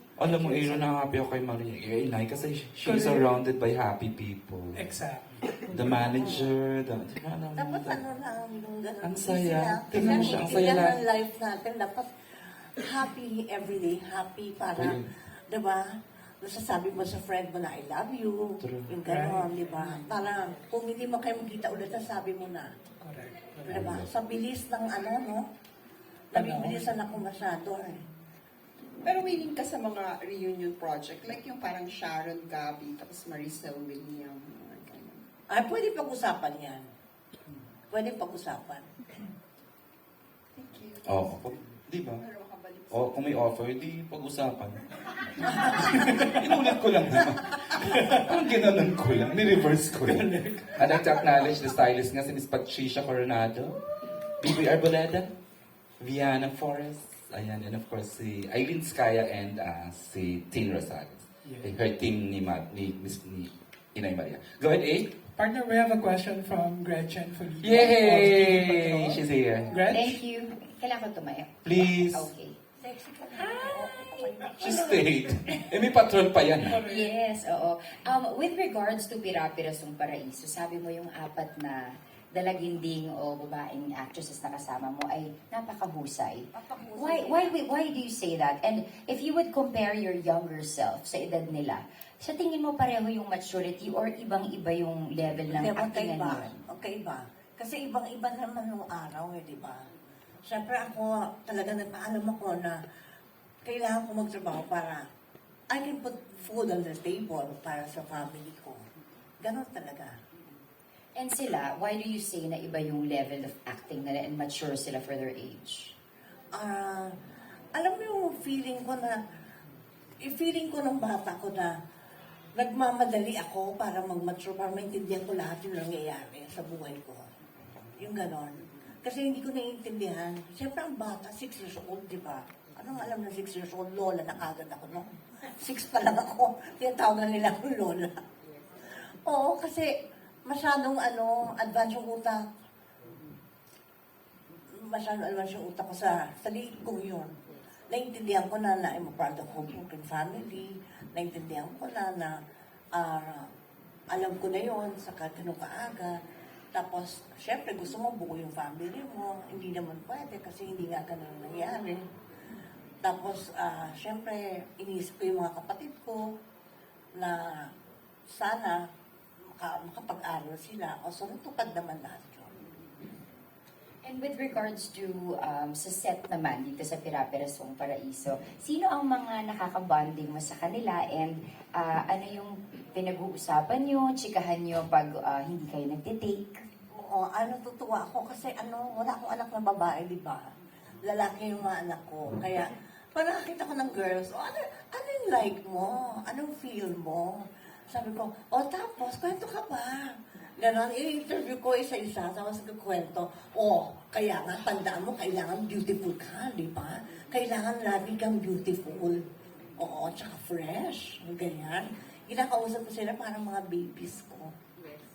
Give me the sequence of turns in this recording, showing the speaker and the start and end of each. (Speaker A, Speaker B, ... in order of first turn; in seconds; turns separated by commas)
Speaker A: 0.2-4.8, Speaker B: 0.2-0.9, Speaker C: 2.8-3.3, Speaker C: 4.7-5.8, Speaker A: 5.7-8.0, Speaker D: 5.9-6.5, Speaker D: 7.6-15.8, Speaker A: 9.0-11.0, Speaker A: 14.8-15.1, Speaker D: 16.4-22.7, Speaker A: 18.6-18.9, Speaker C: 19.1-19.5, Speaker C: 23.0-23.8, Speaker D: 23.6-25.4, Speaker A: 23.7-24.1, Speaker D: 26.3-28.1, Speaker C: 26.3-26.9, Speaker B: 29.0-35.2, Speaker D: 35.5-36.8, Speaker D: 37.9-38.9, Speaker B: 40.5-43.2, Speaker A: 41.0-42.2, Speaker A: 42.9-44.8, Speaker A: 45.5-53.8, Speaker C: 45.9-46.4, Speaker C: 50.1-50.9, Speaker A: 54.4-55.3, Speaker A: 56.0-65.1, Speaker C: 61.5-61.7, Speaker C: 65.3-70.2, Speaker A: 67.6-69.8, Speaker E: 69.9-72.6, Speaker A: 71.7-72.3, Speaker D: 72.8-75.0, Speaker E: 73.3-75.6, Speaker A: 74.6-76.8, Speaker C: 76.7-77.2, Speaker E: 76.8-96.6, Speaker D: 86.5-87.6, Speaker D: 95.5-99.8, Speaker D: 100.5-102.8, Speaker D: 103.7-105.0, Speaker D: 105.7-108.8, Speaker D: 109.4-110.1, Speaker E: 111.2-115.9, Speaker D: 116.5-117.1, Speaker D: 117.8-119.2, Speaker D: 120.2-121.7, Speaker D: 122.5-127.2, Speaker D: 128.0-138.2, Speaker D: 139.1-139.9, Speaker D: 140.5-142.4, Speaker D: 144.7-147.4, Speaker D: 147.9-152.3, Speaker D: 152.9-153.5, Speaker D: 154.1-156.2, Speaker D: 156.7-162.0, Speaker D: 163.0-166.2, Speaker D: 167.2-167.7, Speaker D: 168.3-168.8, Speaker D: 169.6-172.5, Speaker E: 174.0-186.6, Speaker D: 186.9-190.5, Speaker D: 191.0-209.2, Speaker D: 209.8-214.5